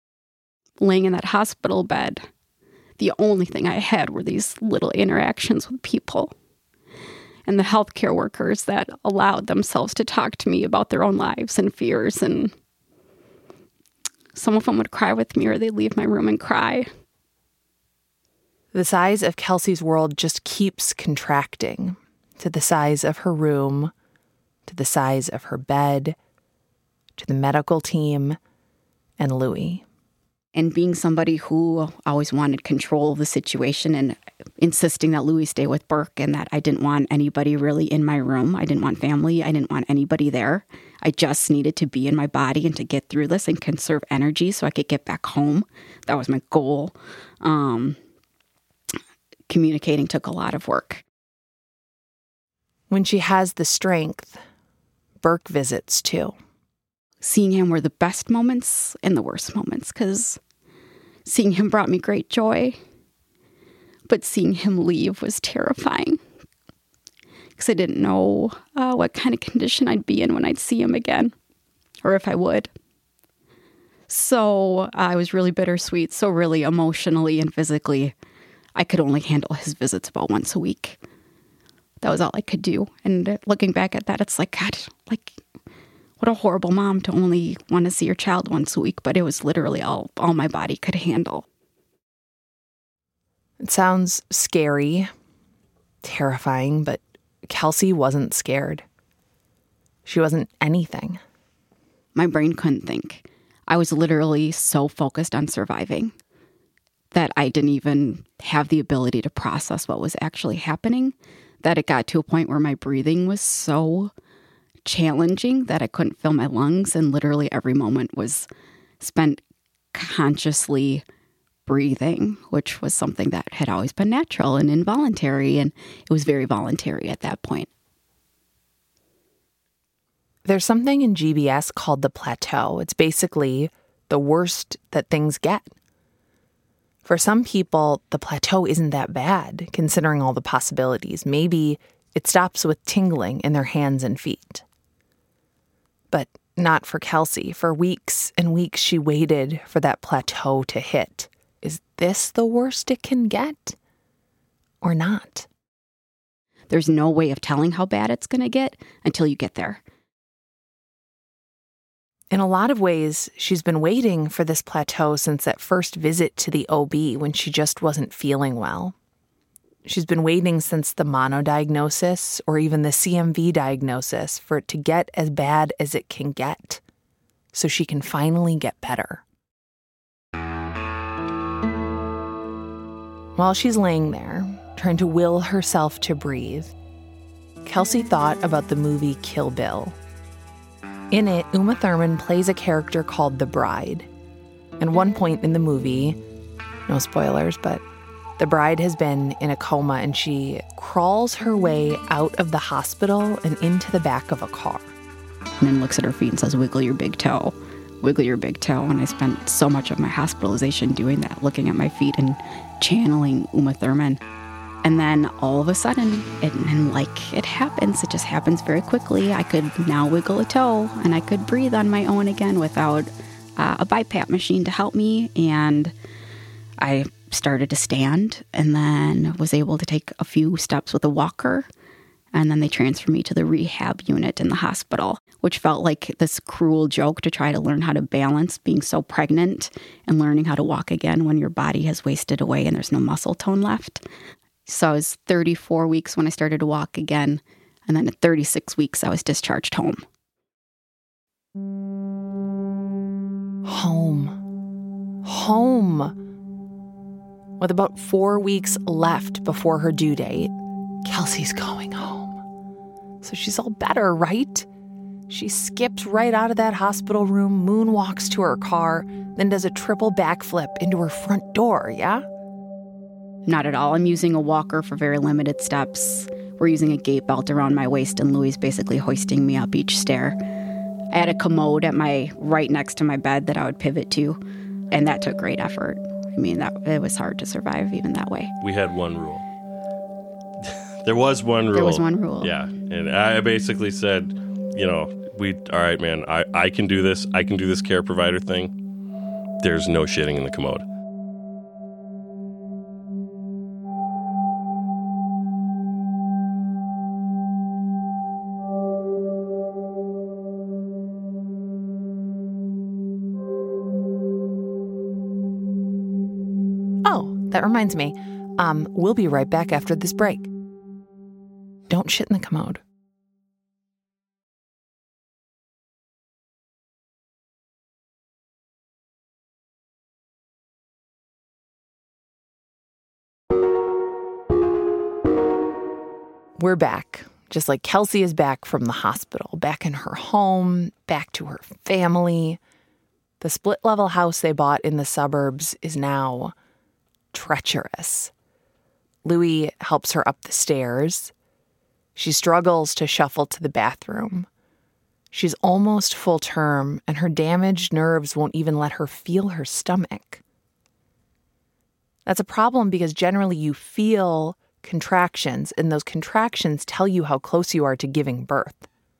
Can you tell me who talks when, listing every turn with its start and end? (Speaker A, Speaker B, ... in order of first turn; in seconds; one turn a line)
Speaker A: 0.8-2.3
Speaker A: 3.0-6.3
Speaker A: 7.5-12.5
Speaker A: 14.3-16.9
Speaker B: 18.7-23.9
Speaker B: 24.7-26.2
Speaker B: 27.2-28.4
Speaker B: 29.2-29.8
Speaker A: 30.6-48.0
Speaker A: 49.5-51.0
Speaker B: 52.9-54.4
Speaker B: 55.2-56.4
Speaker A: 57.2-60.4
Speaker A: 61.2-62.8
Speaker A: 64.1-66.2
Speaker A: 67.6-71.3
Speaker A: 72.0-72.7
Speaker A: 74.1-78.1
Speaker A: 78.8-81.0
Speaker A: 82.0-85.4
Speaker A: 86.2-91.5
Speaker B: 93.6-95.1
Speaker B: 96.0-98.8
Speaker B: 100.0-101.2
Speaker A: 102.2-106.2
Speaker A: 107.1-114.1
Speaker A: 114.8-118.5
Speaker A: 119.0-119.4
Speaker A: 119.9-121.0
Speaker A: 121.7-127.7
Speaker B: 130.4-135.7
Speaker B: 137.1-144.7
Speaker B: 146.1-153.8
Speaker B: 154.8-155.5
Speaker A: 156.7-159.8
Speaker B: 162.3-169.0
Speaker B: 169.8-176.8
Speaker B: 177.5-179.2
Speaker B: 183.4-186.8
Speaker B: 187.7-190.0
Speaker B: 191.1-194.1
Speaker B: 194.8-196.2
Speaker B: 196.9-197.8
Speaker B: 198.4-204.9
Speaker A: 205.6-214.2
Speaker A: 214.8-225.9
Speaker A: 226.8-231.7
Speaker A: 232.3-244.0
Speaker A: 244.7-250.0
Speaker B: 253.7-254.4
Speaker B: 255.2-256.2
Speaker B: 257.6-262.4
Speaker B: 263.2-264.7
Speaker B: 265.3-272.2
Speaker A: 273.5-280.4
Speaker A: 281.1-284.4
Speaker A: 284.9-288.5
Speaker C: 288.6-289.4
Speaker C: 290.6-298.7
Speaker A: 291.7-292.5
Speaker C: 299.6-300.9
Speaker B: 317.1-320.5
Speaker B: 321.9-322.8
Speaker B: 336.6-342.6
Speaker B: 343.4-346.6
Speaker B: 347.3-348.3
Speaker B: 349.2-351.3
Speaker B: 352.2-354.5
Speaker B: 355.3-360.4
Speaker B: 362.3-368.9